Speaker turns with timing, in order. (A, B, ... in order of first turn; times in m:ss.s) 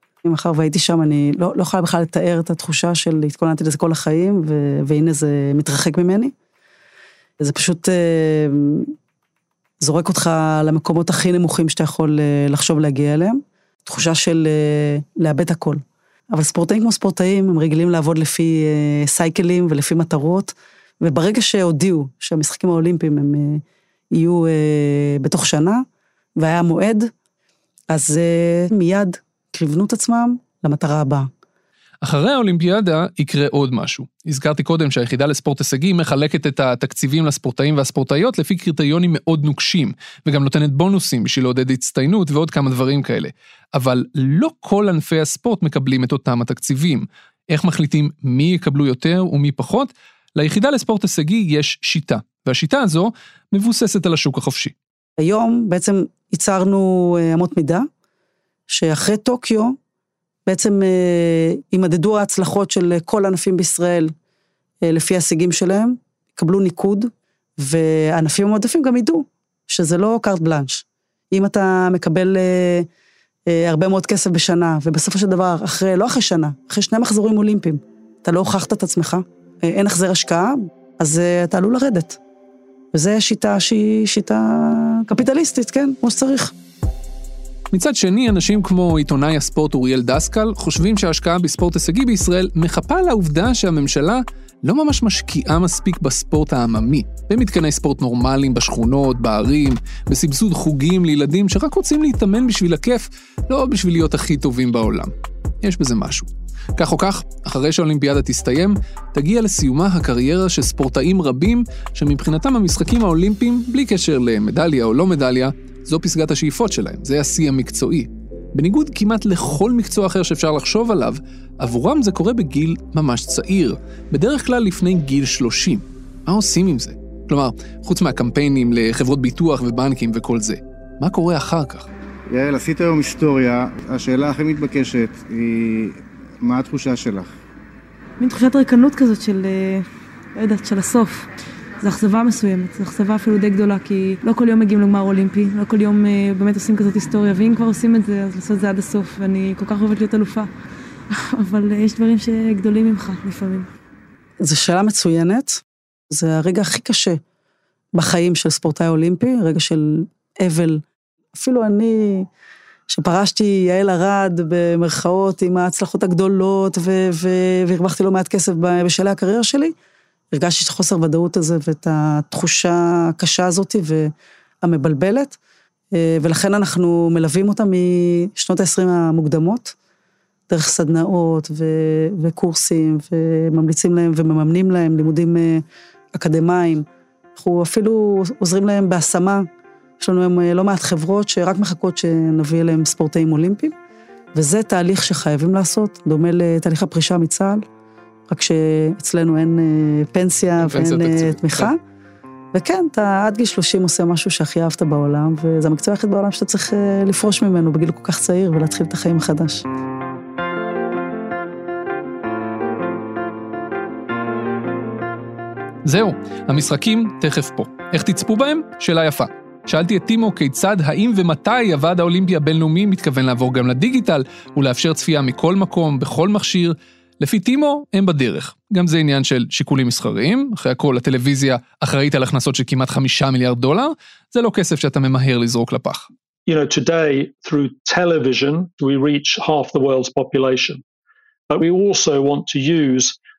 0:00.2-0:06.3 A
0:07.4-0:08.9 A
0:09.8-0:25.8 A
0:26.4-0:27.1 A
0:27.9-0:31.3 A
0:32.0-0:54.7 B
0:55.2-0:57.9 A
0:58.7-0:59.8 A
1:00.5-1:04.1 A
1:04.8-1:12.9 A
1:13.5-1:22.2 A
1:22.9-1:26.5 A
1:27.7-2:11.9 B
2:12.3-2:17.3 C
2:18.2-2:21.3 D
2:21.8-2:30.5 D
2:31.1-2:33.7 D
2:34.4-2:37.2 A
2:38.0-2:40.8 A
2:41.4-2:42.3 A
2:42.9-2:49.7 A
2:50.3-2:54.1 A
2:54.6-2:55.4 A
2:56.0-2:59.7 A
3:00.5-3:05.6 A
3:06.1-3:06.8 A
3:07.4-3:09.5 A
3:10.0-3:13.7 A
3:14.4-3:17.6 A
3:18.3-3:21.8 A
3:20.6-3:21.7 B
3:22.5-3:29.6 A
3:35.8-3:56.1 B
3:56.5-4:00.8 E
4:01.5-4:03.2 E